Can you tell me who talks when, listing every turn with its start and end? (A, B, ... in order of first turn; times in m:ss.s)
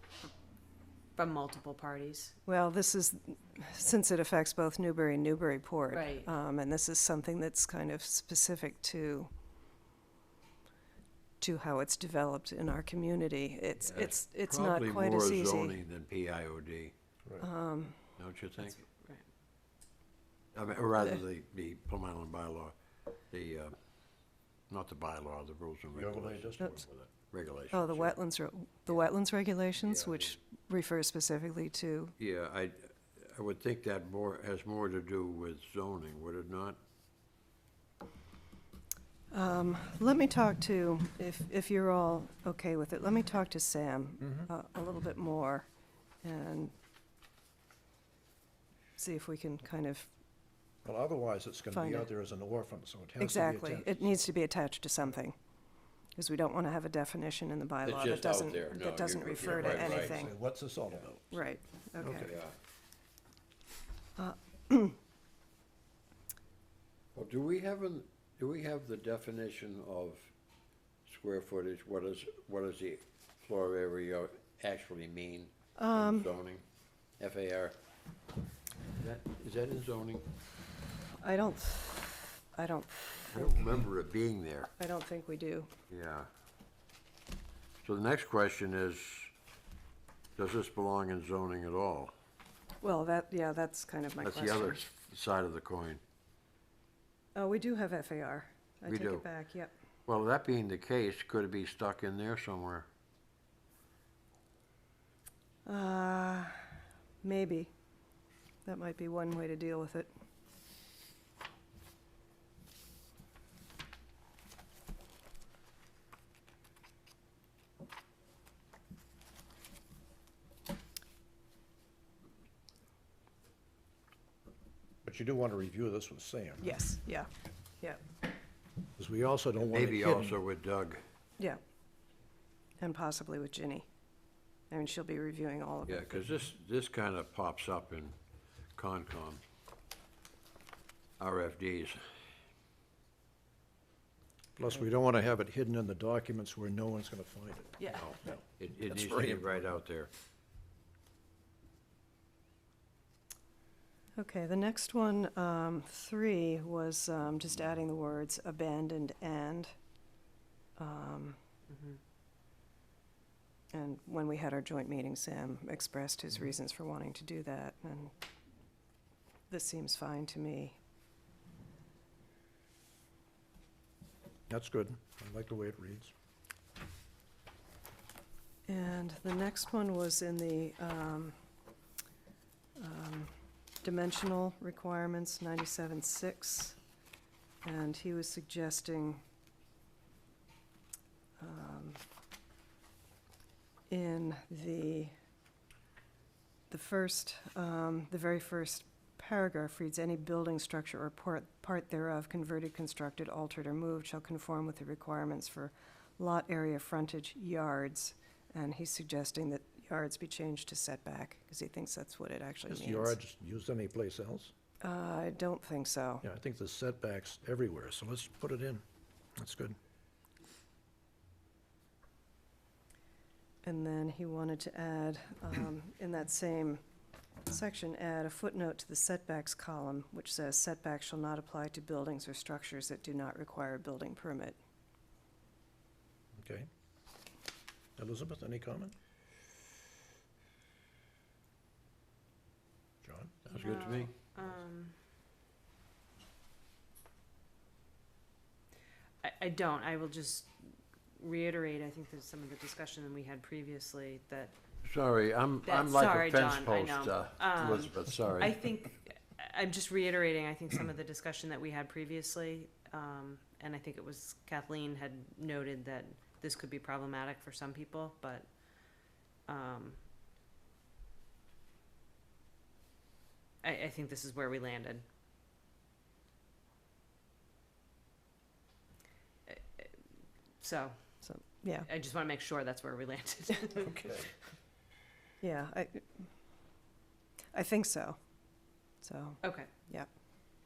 0:01.2-0:02.4 A
0:02.4-0:09.3 B
0:05.9-0:06.3 A
0:11.4-0:15.8 B
0:13.8-0:16.9 C
0:17.4-0:18.0 B
0:18.2-0:18.8 C
0:18.9-0:19.2 A
0:20.5-0:22.7 C
0:23.3-0:23.7 C
0:24.7-0:28.2 C
0:25.9-0:26.8 D
0:27.7-0:32.1 B
0:29.8-0:30.3 C
0:32.2-0:36.8 C
0:39.3-0:45.7 B
0:44.2-0:44.5 D
0:46.2-0:46.7 B
0:49.0-0:50.1 B
0:50.8-0:54.1 D
0:51.7-0:52.1 B
0:53.2-0:55.4 B
0:56.2-1:00.3 B
0:57.8-1:00.3 C
0:59.4-1:01.4 D
1:01.3-1:02.3 B
1:02.0-1:02.3 D
1:02.2-1:02.5 C
1:04.2-1:05.0 B
1:07.1-1:10.3 C
1:11.0-1:16.6 C
1:15.8-1:16.3 B
1:17.2-1:17.8 C
1:18.9-1:20.3 C
1:21.2-1:23.6 B
1:23.3-1:24.7 C
1:24.8-1:25.7 B
1:25.9-1:26.3 C
1:27.8-1:29.3 C
1:30.4-1:32.1 C
1:32.8-1:34.8 B
1:34.2-1:36.0 C
1:37.3-1:39.7 B
1:38.9-1:39.2 C
1:40.1-1:42.9 C
1:45.6-1:46.7 B
1:47.2-1:47.7 B
1:48.6-1:50.1 B
2:05.0-2:06.6 D
2:06.6-2:07.3 B
2:09.0-2:10.4 D
2:09.7-2:11.0 C
2:12.8-2:13.9 B
2:14.7-2:16.4 B
2:15.9-2:18.1 C
2:18.8-2:19.4 C
2:21.2-2:22.0 C
2:24.6-2:29.6 D
2:27.9-2:30.1 C
2:34.2-2:39.7 B
2:40.8-2:41.4 B
2:43.7-2:48.1 B
2:49.5-2:50.8 B
2:54.5-2:56.1 D
2:58.7-3:01.3 B
3:02.8-3:06.8 B
3:07.6-3:09.2 B
3:11.4-3:12.0 B
3:13.9-3:15.1 B
3:16.7-3:33.2 B
3:32.7-3:34.5 D
3:34.8-3:36.2 B
3:36.2-3:38.8 D
3:39.4-3:39.8 D
3:43.6-3:46.8 B
3:47.4-3:54.6 B
3:56.4-3:56.7 D
3:58.0-3:58.9 D
4:03.0-4:03.6 D
4:03.5-4:04.1 C
4:03.5-4:04.9 A
4:09.2-4:10.5 A
4:11.2-4:14.5 A
4:14.8-4:18.6 C
4:15.6-4:28.5 A
4:29.4-4:30.0 A
4:33.6-4:35.0 A
4:39.5-4:40.0 A
4:40.6-4:41.0 A
4:41.2-4:41.9 B
4:41.8-4:44.2 A
4:43.8-4:44.3 D
4:45.4-4:46.3 B
4:47.5-4:48.2 B
4:49.0-4:50.1 B
4:49.4-4:49.7 A